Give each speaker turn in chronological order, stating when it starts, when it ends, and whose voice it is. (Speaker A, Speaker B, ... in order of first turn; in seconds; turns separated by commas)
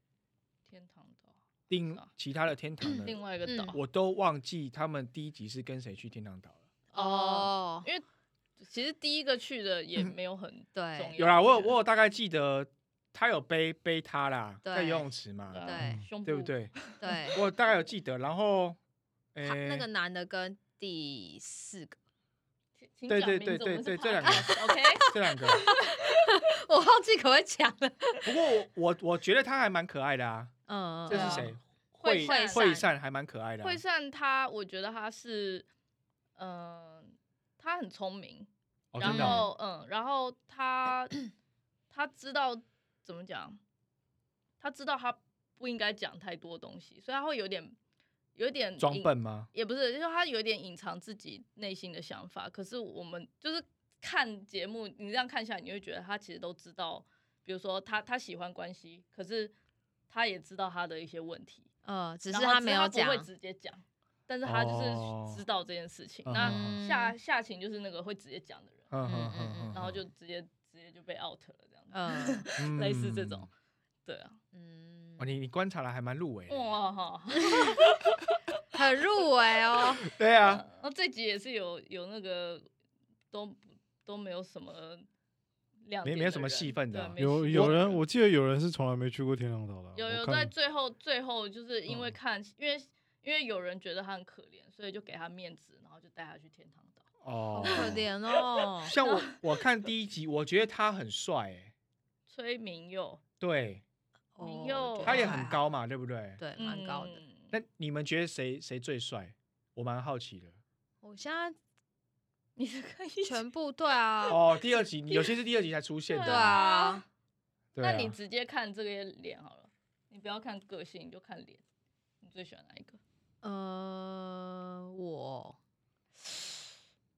Speaker A: 0.7-2.1, Speaker B: 1.7-3.2, Speaker C: 2.8-3.8, Speaker A: 3.0-3.8, Speaker B: 3.7-6.6, Speaker C: 6.9-7.9, Speaker A: 6.9-8.0, Speaker A: 8.6-11.8, Speaker C: 10.7-11.1, Speaker B: 11.2-15.6, Speaker C: 14.6-15.1, Speaker A: 15.5-17.4, Speaker C: 15.6-16.0, Speaker D: 15.8-16.0, Speaker B: 16.2-18.8, Speaker C: 17.0-17.4, Speaker B: 19.3-19.9, Speaker C: 19.4-22.0, Speaker A: 22.9-26.1, Speaker B: 23.1-25.6, Speaker C: 24.2-28.3, Speaker B: 28.2-30.5, Speaker C: 30.7-31.5, Speaker B: 31.1-33.8, Speaker A: 31.1-32.8, Speaker C: 32.2-32.8, Speaker A: 33.6-35.7, Speaker A: 36.4-41.2, Speaker B: 38.9-39.4, Speaker C: 39.0-39.5, Speaker A: 41.9-43.6, Speaker A: 44.6-47.7, Speaker A: 48.3-59.5, Speaker B: 48.8-49.5, Speaker A: 60.1-61.7, Speaker C: 61.8-63.3, Speaker A: 62.3-68.9, Speaker B: 64.4-65.4, Speaker B: 66.2-66.8, Speaker C: 66.4-67.2, Speaker B: 68.9-70.0, Speaker C: 69.0-69.8, Speaker A: 69.7-73.5, Speaker C: 71.9-72.5, Speaker B: 72.6-73.5, Speaker A: 74.0-74.4, Speaker C: 74.5-75.3, Speaker B: 75.2-76.8, Speaker A: 76.5-78.2, Speaker C: 78.7-80.0, Speaker B: 80.1-80.6, Speaker A: 80.4-82.7, Speaker A: 83.3-85.0, Speaker A: 85.8-88.0, Speaker B: 86.0-87.9, Speaker D: 87.2-90.5, Speaker A: 89.9-97.0, Speaker B: 97.2-98.0, Speaker C: 97.5-98.9, Speaker A: 97.6-99.4, Speaker B: 98.9-101.7, Speaker A: 102.3-103.2, Speaker B: 103.4-103.8, Speaker C: 104.3-105.6, Speaker A: 104.4-105.4, Speaker B: 105.0-106.4, Speaker C: 106.4-107.2, Speaker A: 106.6-107.5, Speaker B: 107.5-110.6, Speaker C: 111.0-111.5, Speaker A: 112.6-113.4, Speaker C: 113.2-114.4, Speaker B: 114.3-116.6, Speaker A: 116.1-117.0, Speaker C: 116.2-117.0, Speaker B: 117.8-118.1, Speaker A: 117.8-121.6, Speaker A: 122.2-123.0, Speaker C: 123.4-125.6, Speaker C: 126.2-126.5